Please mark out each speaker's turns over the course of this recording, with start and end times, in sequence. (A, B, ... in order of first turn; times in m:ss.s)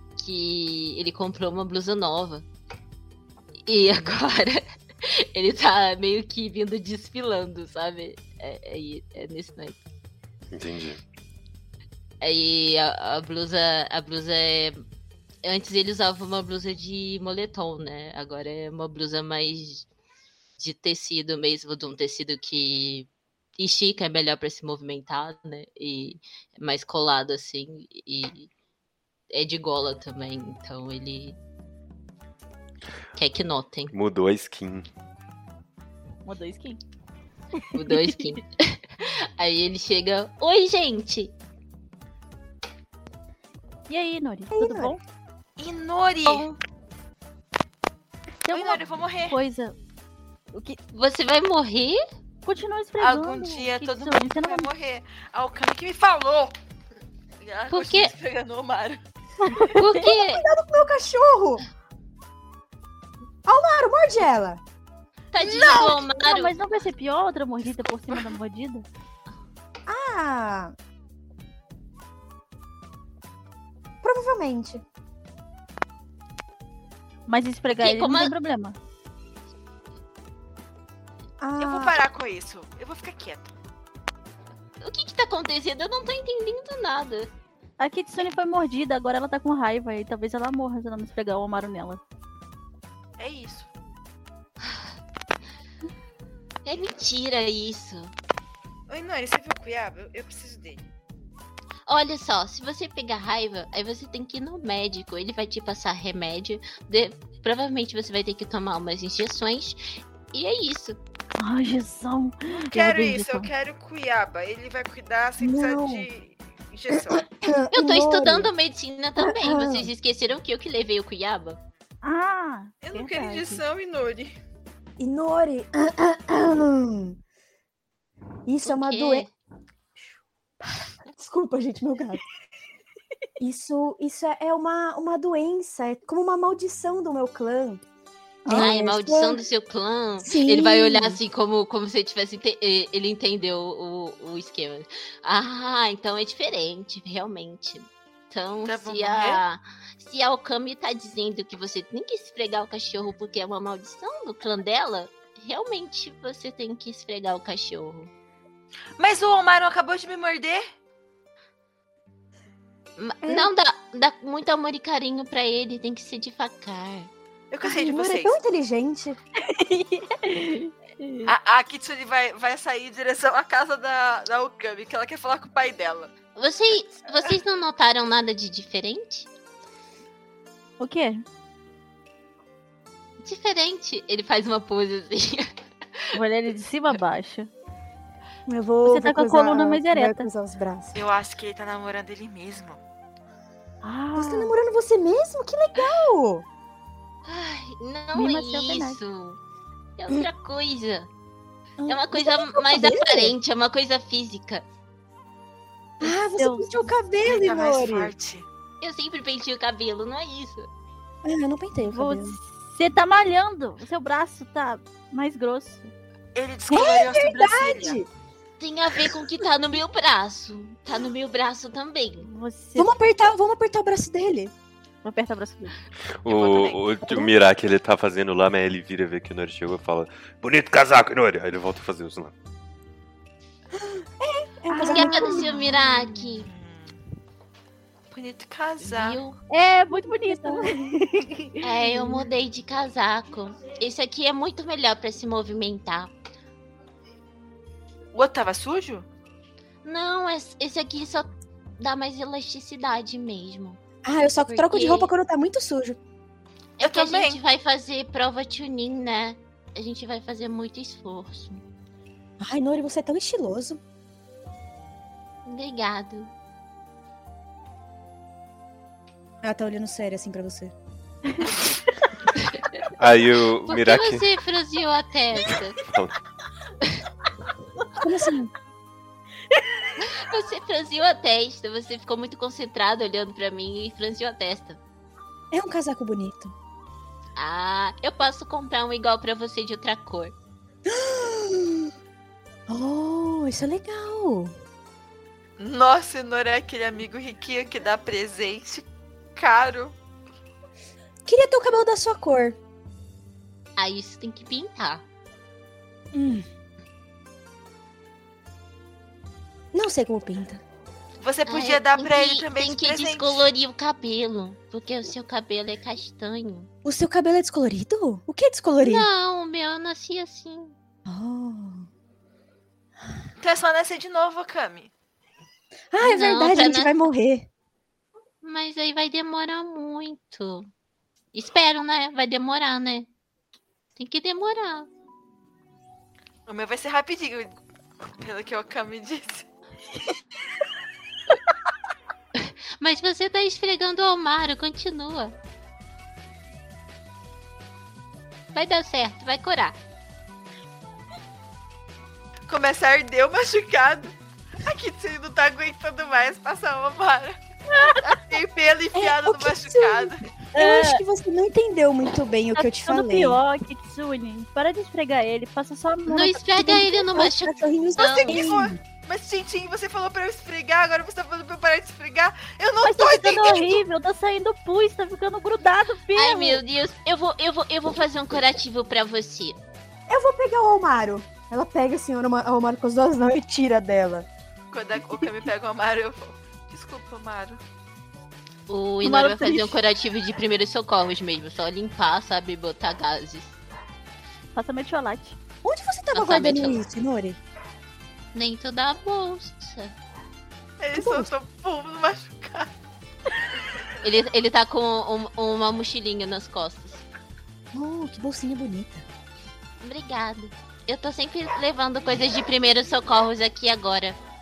0:00.2-0:02.4 A
0:03.7-0:04.6 A
0:05.4-0:09.8 A
0:10.5-0:11.0 B
0:12.2-0:14.8 A
0:15.4-0:19.9 A
0:20.6-0:28.5 A
0:29.3-0:31.4 A
0:33.2-0:33.9 A
0:33.9-0:34.9 B
0:36.3-0:36.8 C
0:37.8-0:38.5 A
0:37.9-0:38.3 C
0:39.4-0:41.3 A
0:43.9-0:45.0 C
0:44.5-0:45.0 D
0:45.6-0:46.5 E
0:48.4-0:49.8 C
0:48.5-0:49.4 E
0:50.5-0:50.8 C
0:50.9-0:52.0 A
0:52.4-0:54.7 C
0:53.0-0:56.5 E
0:57.4-0:59.0 E
0:57.7-0:58.1 A
0:59.4-1:00.0 C
0:59.8-1:00.4 A
1:00.0-1:01.6 D
1:03.4-1:04.6 D
1:05.3-1:06.6 A
1:05.5-1:05.9 E
1:06.0-1:08.9 C
1:09.9-1:10.7 D
1:14.0-1:14.8 D
1:17.3-1:18.8 C
1:17.8-1:18.3 A
1:21.4-1:22.0 D
1:21.6-1:23.5 E
1:24.8-1:27.3 A
1:27.8-1:32.0 C
1:33.2-1:33.7 E
1:34.6-1:34.9 A
1:36.7-1:38.1 A
1:38.9-1:40.8 E
1:41.9-1:51.0 A
1:51.4-1:53.5 C
1:52.7-1:57.3 E
1:55.4-1:56.1 D
1:56.9-1:58.5 D
1:57.7-2:01.6 A
1:59.2-1:59.9 D
2:02.0-2:03.6 C
2:02.8-2:04.4 E
2:05.0-2:07.2 D
2:08.5-2:09.3 D
2:08.6-2:09.3 A
2:10.0-2:12.2 D
2:13.4-2:17.8 D
2:18.4-2:18.7 C
2:18.5-2:19.4 D
2:18.5-2:38.1 A
2:20.2-2:21.2 D
2:28.6-2:29.4 E
2:39.0-2:40.7 E
2:43.0-2:47.1 A
2:43.2-2:43.5 D
2:47.5-2:48.4 E
2:47.6-2:49.2 D
2:49.4-2:51.3 C
2:51.2-2:56.1 E
2:56.4-2:59.3 A
3:00.8-3:01.2 C
3:03.2-3:05.5 A
3:06.2-3:07.5 C
3:08.5-3:11.0 D
3:08.8-3:10.3 C
3:11.0-3:12.8 E
3:13.8-3:14.6 C
3:14.2-3:16.5 D
3:17.3-3:19.4 A
3:18.1-3:19.0 C
3:20.0-3:21.1 A
3:21.8-3:23.4 D
3:21.9-3:24.7 A
3:26.0-3:28.1 D
3:26.0-3:26.8 C
3:27.2-3:28.5 E
3:28.8-3:30.7 A
3:31.2-3:32.4 D
3:31.9-3:35.9 C
3:36.4-3:38.0 E
3:36.7-3:38.1 D
3:38.6-3:42.3 A
3:42.3-3:42.9 C
3:42.8-3:44.5 D
3:45.0-3:45.8 C
3:46.2-3:52.3 B
3:46.3-3:46.6 E
3:53.8-3:55.5 D
3:54.7-3:55.5 C
3:54.8-3:56.5 A
3:56.4-3:57.0 E
3:58.1-3:59.2 E
3:58.8-3:59.4 A
3:59.5-4:02.2 C
4:00.2-4:00.7 D
4:01.6-4:06.1 A
4:08.1-4:09.1 E
4:09.8-4:13.8 A
4:14.0-4:16.0 D
4:14.5-4:15.1 A
4:16.8-4:21.6 A
4:16.8-4:17.4 E
4:22.4-4:23.8 D
4:25.4-4:26.3 A
4:29.4-4:30.7 D
4:33.0-4:34.3 B
4:33.7-4:35.8 A
4:35.8-4:36.2 B
4:38.0-4:38.5 D
4:40.0-4:44.8 A
4:45.5-4:46.5 D
4:47.4-4:50.4 A
4:50.9-4:51.9 D
4:52.7-4:54.5 D
4:55.6-4:58.8 E
4:59.4-5:00.0 E
5:01.3-5:02.6 D
5:03.8-5:05.0 A
5:06.1-5:06.5 D
5:09.7-5:10.6 D
5:11.2-5:13.5 E
5:11.5-5:16.7 A
5:16.8-5:19.1 D
5:18.8-5:20.8 A
5:21.1-5:21.9 D
5:23.4-5:24.9 E
5:25.9-5:27.5 D
5:26.0-5:27.0 A
5:28.4-5:30.7 A
5:31.3-5:33.1 A
5:34.0-5:34.9 A
5:36.5-5:37.5 E
5:38.2-5:39.4 E
5:42.4-5:45.4 A
5:48.5-5:49.8 A
5:52.5-5:57.4 E
5:58.0-6:00.2 E
5:59.0-6:03.4 D
6:00.5-6:01.0 C
6:02.6-6:07.4 C
6:06.1-6:08.4 A
6:07.1-6:08.8 D
6:08.0-6:13.8 E
6:12.8-6:16.6 C
6:16.1-6:19.6 A
6:20.1-6:24.3 D
6:24.7-6:27.6 E
6:28.7-6:33.6 A
6:29.0-6:29.8 C
6:34.5-6:35.4 C
6:35.6-6:37.4 D
6:36.1-6:36.8 A
6:38.3-6:39.9 A
6:40.8-6:42.7 E
6:40.9-6:41.3 D
6:44.0-6:47.0 A
6:47.7-6:49.0 D
6:49.8-6:54.2 A